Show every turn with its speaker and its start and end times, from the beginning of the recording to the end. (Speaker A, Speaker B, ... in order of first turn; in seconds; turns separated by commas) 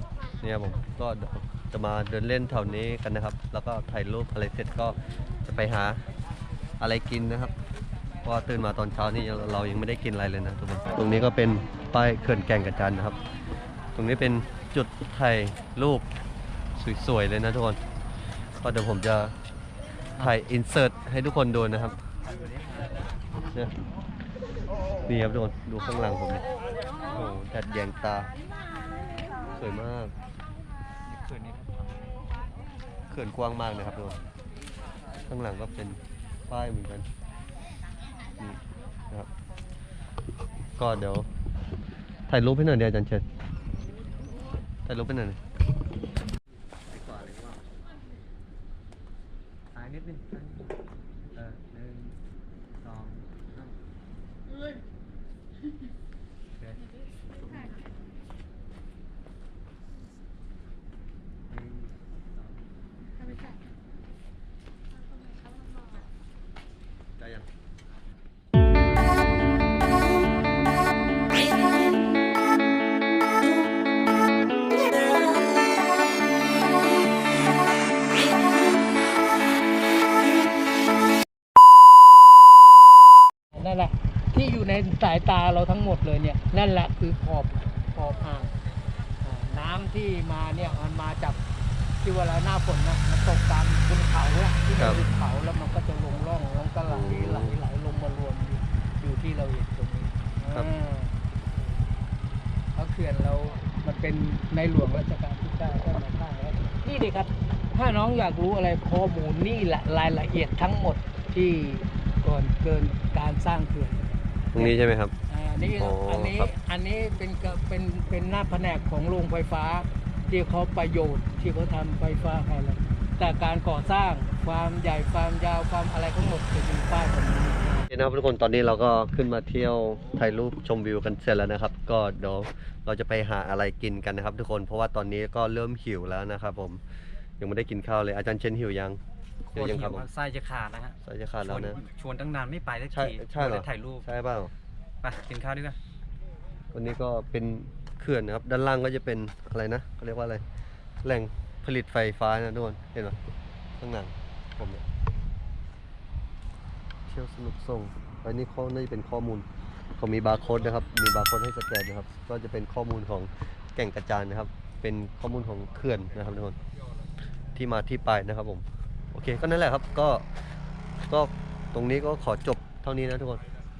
Speaker A: 0.4-6.0, Speaker A: 6.8-7.5, Speaker A: 8.2-13.2, Speaker A: 13.9-16.1, Speaker A: 16.8-17.8, Speaker A: 18.6-19.4, Speaker A: 20.2-22.0, Speaker B: 22.3-23.1, Speaker A: 25.1-26.4, Speaker A: 27.1-28.3, Speaker A: 29.5-30.1, Speaker B: 31.1-32.1, Speaker A: 33.1-34.2, Speaker A: 35.3-37.1, Speaker A: 40.8-41.3, Speaker A: 42.3-43.2, Speaker A: 44.9-45.4, Speaker B: 46.9-47.6, Speaker B: 49.7-50.7, Speaker B: 51.3-52.2, Speaker B: 52.8-53.8, Speaker B: 57.4-57.7, Speaker B: 61.5-62.5, Speaker A: 67.2-67.5, Speaker C: 83.5-88.5, Speaker C: 89.2-91.4, Speaker C: 92.0-101.2, Speaker A: 94.8-95.0, Speaker A: 96.9-97.6, Speaker A: 100.5-100.8, Speaker C: 102.8-114.0, Speaker A: 114.5-115.1, Speaker C: 114.6-127.8, Speaker A: 115.8-116.5, Speaker A: 127.9-136.8, Speaker A: 137.4-139.0, Speaker B: 139.5-144.1, Speaker A: 139.5-140.1, Speaker A: 141.1-141.8, Speaker A: 142.9-144.5, Speaker B: 145.0-145.8, Speaker A: 146.7-150.4, Speaker A: 151.0-153.2, Speaker A: 153.8-154.8, Speaker A: 157.1-159.5, Speaker A: 160.0-166.6, Speaker A: 167.6-170.2, Speaker A: 171.1-173.4